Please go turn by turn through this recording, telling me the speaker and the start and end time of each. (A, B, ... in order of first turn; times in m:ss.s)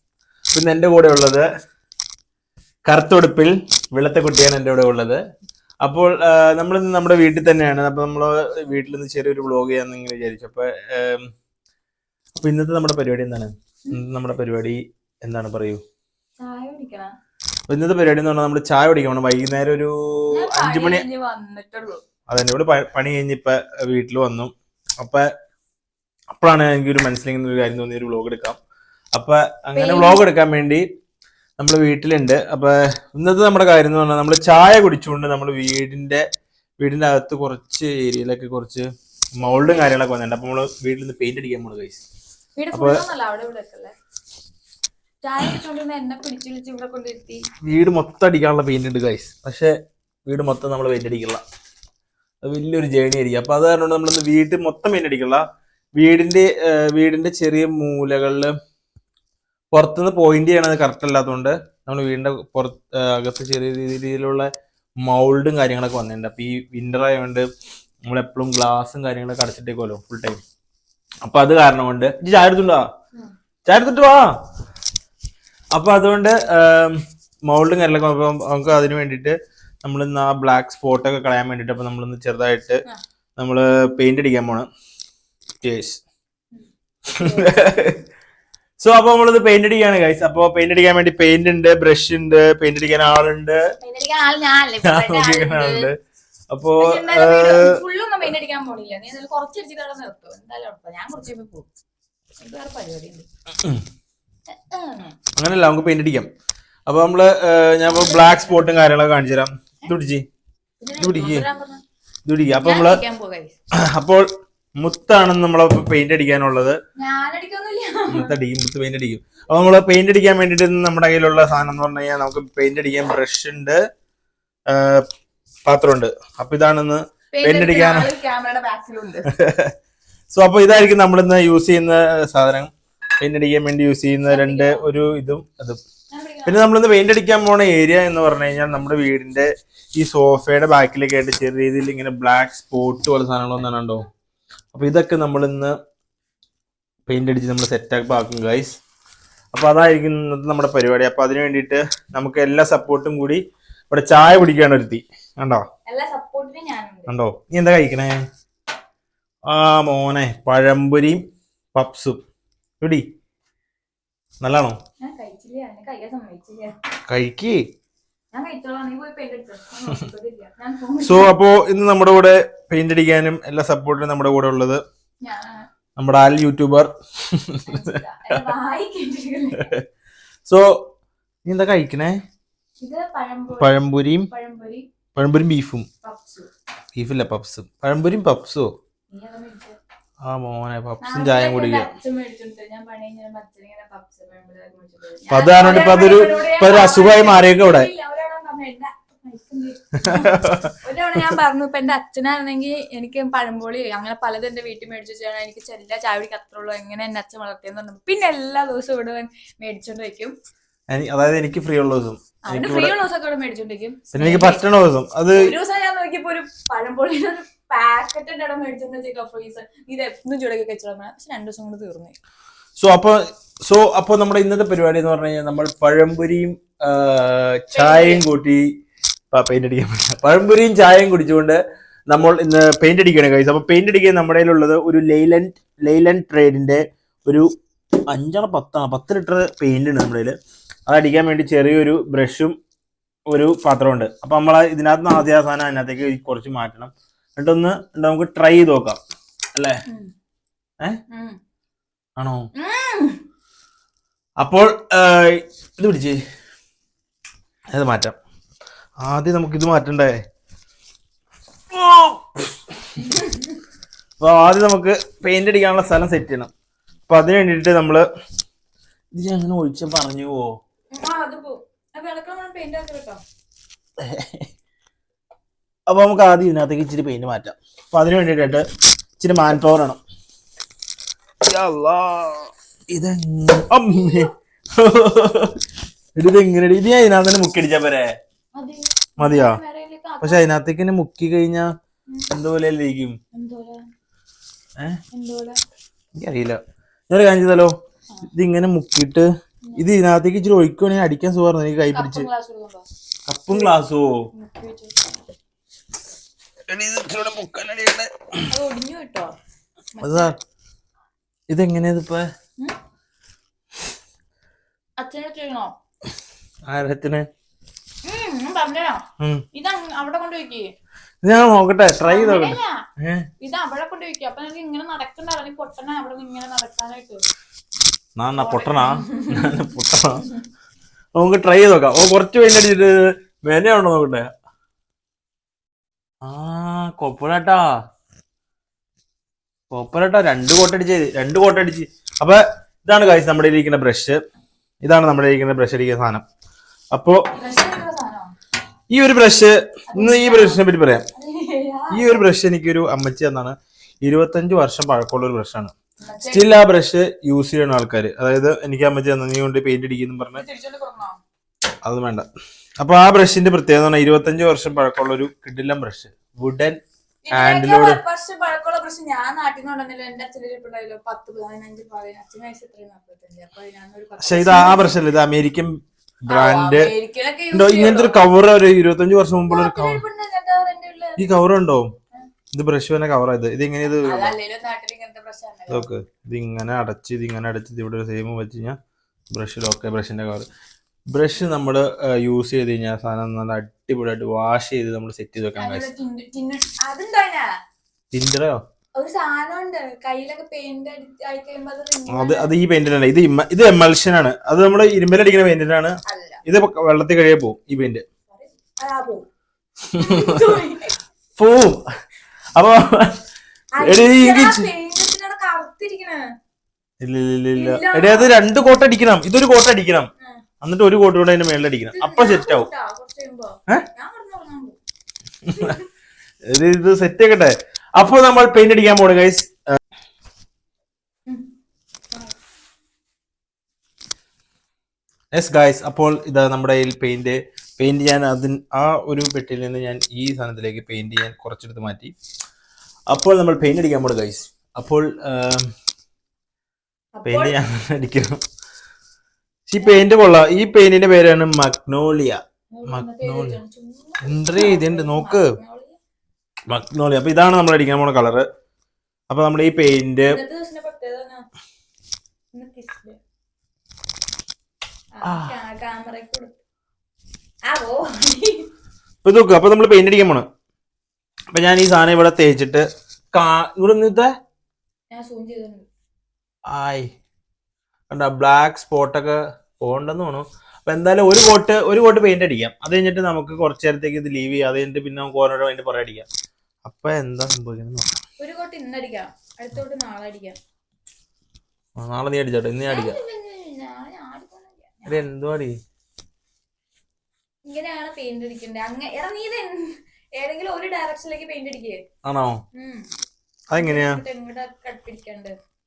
0:00.5-0:01.5 A
0:02.9-0:05.2 A
0:05.8-0:11.3 A
0:12.4-0:15.8 A
0:16.4-0:17.1 B
0:17.7-0:21.0 A
0:20.3-0:22.0 B
0:22.3-0:25.3 A
0:26.3-0:28.6 A
0:29.1-0:30.8 A
0:29.8-0:30.2 B
0:31.6-0:36.2 A
0:36.8-0:38.8 A
0:39.4-0:42.0 A
0:39.4-0:40.0 B
0:42.6-0:44.0 B
0:42.7-0:43.0 A
0:45.2-0:47.4 B
0:47.6-0:49.7 A
0:50.3-0:51.4 A
0:52.4-0:55.4 A
0:56.0-0:58.5 A
0:59.7-1:04.5 A
1:05.0-1:07.5 A
1:08.0-1:10.4 A
1:11.2-1:12.9 A
1:13.7-1:14.3 A
1:15.7-1:22.8 A
1:23.4-1:24.7 A
1:25.6-1:26.0 A
1:26.5-1:27.9 B
1:27.2-1:28.0 A
1:28.8-1:33.6 A
1:33.8-1:35.9 B
1:34.8-1:36.0 A
1:36.5-1:37.8 A
1:36.8-1:41.7 B
1:42.4-1:43.3 B
1:43.6-1:43.8 A
1:44.5-1:45.2 B
1:45.4-1:46.3 A
1:46.9-1:50.2 A
1:47.8-1:48.7 B
1:50.8-1:51.8 B
1:51.0-1:51.5 A
1:52.3-1:53.0 A
1:52.6-1:53.6 B
1:53.8-1:54.3 A
1:54.8-1:56.8 A
1:57.0-1:58.4 B
1:58.1-2:03.8 A
2:04.7-2:05.0 A
2:05.6-2:08.1 A
2:07.3-2:09.3 B
2:09.3-2:09.7 A
2:10.3-2:15.8 A
2:14.2-2:14.8 B
2:16.1-2:16.7 B
2:16.5-2:24.1 A
2:24.7-2:25.7 A
2:27.1-2:28.8 A
2:29.5-2:35.6 A
2:35.9-2:37.2 B
2:37.1-2:38.2 A
2:39.5-2:41.2 A
2:41.7-2:42.2 A
2:44.4-2:44.8 A
2:45.0-2:46.8 B
2:47.1-2:47.6 A
2:48.3-2:51.3 B
2:51.0-2:54.8 A
2:55.2-2:55.7 B
2:56.0-2:58.4 A
2:57.7-2:59.7 B
2:59.6-2:59.8 A
3:00.5-3:00.8 A
3:01.4-3:02.2 A
3:02.8-3:03.8 B
3:03.6-3:04.3 A
3:04.3-3:04.9 B
3:05.2-3:05.9 A
3:06.0-3:06.5 B
3:07.0-3:08.7 A
3:09.1-3:09.8 B
3:10.2-3:11.9 A
3:11.0-3:30.3 B
3:15.3-3:17.9 A
3:20.0-3:20.8 A
3:30.9-3:33.0 A
3:32.5-3:34.7 B
3:34.1-3:35.5 A
3:35.3-3:42.2 B
3:42.8-3:48.7 A
3:47.7-3:48.2 B
3:49.3-3:57.5 A
3:58.1-4:02.5 A
4:03.3-4:09.0 A
4:09.6-4:09.8 A
4:11.1-4:11.4 B
4:12.2-4:12.5 A
4:12.6-4:13.2 B
4:14.4-4:16.2 A
4:17.7-4:18.2 A
4:19.0-4:20.2 A
4:21.7-4:23.0 A
4:23.0-4:23.6 B
4:24.2-4:26.5 A
4:27.1-4:28.0 A
4:29.1-4:30.5 A
4:30.9-4:33.2 B
4:34.0-4:34.5 A
4:35.9-4:38.6 A
4:39.2-4:40.0 A
4:41.4-4:45.6 A
4:43.9-4:44.3 B
4:46.2-4:48.1 A
4:48.6-4:50.5 B
4:49.2-4:49.6 A
4:50.2-4:51.7 A
4:52.1-4:52.3 B
4:52.3-4:53.2 A
4:53.3-4:53.9 B
4:55.1-4:55.6 B
4:56.2-4:57.7 A
4:58.3-4:59.3 A
4:59.7-4:59.9 B
4:59.8-5:02.3 A
5:01.9-5:02.9 B
5:03.3-5:04.1 A
5:04.3-5:05.0 B
5:06.7-5:08.4 A
5:08.5-5:09.3 B
5:10.0-5:10.3 B
5:10.0-5:10.4 A
5:11.5-5:12.3 A
5:15.0-5:15.8 B
5:16.7-5:17.3 A
5:18.0-5:20.7 B
5:19.2-5:19.4 A
5:21.2-5:23.3 A
5:22.1-5:22.9 B
5:23.4-5:27.2 B
5:28.2-5:30.3 A
5:28.3-5:29.7 B
5:31.2-5:34.3 A
5:36.2-5:37.7 A
5:39.7-5:44.2 A
5:44.8-5:46.2 A
5:46.9-5:47.2 A
5:47.3-5:48.4 B
5:48.9-5:51.1 A
5:49.9-5:50.6 B
5:51.1-5:52.3 B
5:51.9-5:55.7 A
5:56.0-5:56.5 B
5:56.3-6:00.4 A
6:00.4-6:01.2 B
6:01.8-6:02.3 A
6:02.8-6:06.8 A
6:07.3-6:15.1 B
6:07.3-6:08.0 A
6:14.2-6:16.9 A
6:16.3-6:18.2 B
6:17.5-6:20.0 A
6:19.5-6:21.2 B
6:21.2-6:21.9 A
6:22.5-6:24.3 A
6:23.8-6:25.9 B
6:25.7-6:28.8 A
6:29.3-6:30.5 A
6:31.1-6:35.9 A
6:35.6-6:37.5 B
6:38.1-6:38.6 A
6:39.0-6:42.5 B
6:42.1-6:48.0 A
6:46.0-6:46.4 B
6:48.3-6:49.3 B
6:49.9-6:50.6 A
6:49.9-6:51.0 B
6:51.4-6:51.8 A
6:52.6-6:53.2 A
6:53.7-6:56.2 B
6:53.8-6:54.6 A
6:57.0-7:00.1 A
6:57.6-6:58.4 B
7:00.6-7:02.7 A
7:01.9-7:04.8 B
7:05.5-7:05.8 A
7:05.6-7:05.8 B
7:06.5-7:09.5 A
7:15.3-7:22.1 A
7:23.1-7:25.7 A
7:27.2-7:27.6 B
7:27.3-7:28.4 A
7:29.7-7:33.6 A
7:29.8-7:30.1 B
7:32.7-7:36.0 B
7:34.2-7:35.5 A
7:36.7-7:38.4 A
7:39.3-7:40.4 A
7:40.3-7:41.4 B
7:42.5-7:43.2 B
7:45.2-7:46.6 B
7:45.2-7:45.5 A
7:47.7-7:48.7 B
7:49.2-7:50.5 A
7:51.5-7:54.3 A
7:55.1-7:55.9 B
7:56.7-7:57.1 A
7:58.1-8:06.3 A
8:06.8-8:08.2 A
8:08.4-8:10.6 B
8:12.0-8:13.2 A
8:12.9-8:15.2 B
8:15.1-8:15.8 A
8:17.7-8:22.0 B
8:22.2-8:22.6 A
8:22.7-8:23.1 B
8:23.7-8:24.2 A
8:23.7-8:25.6 B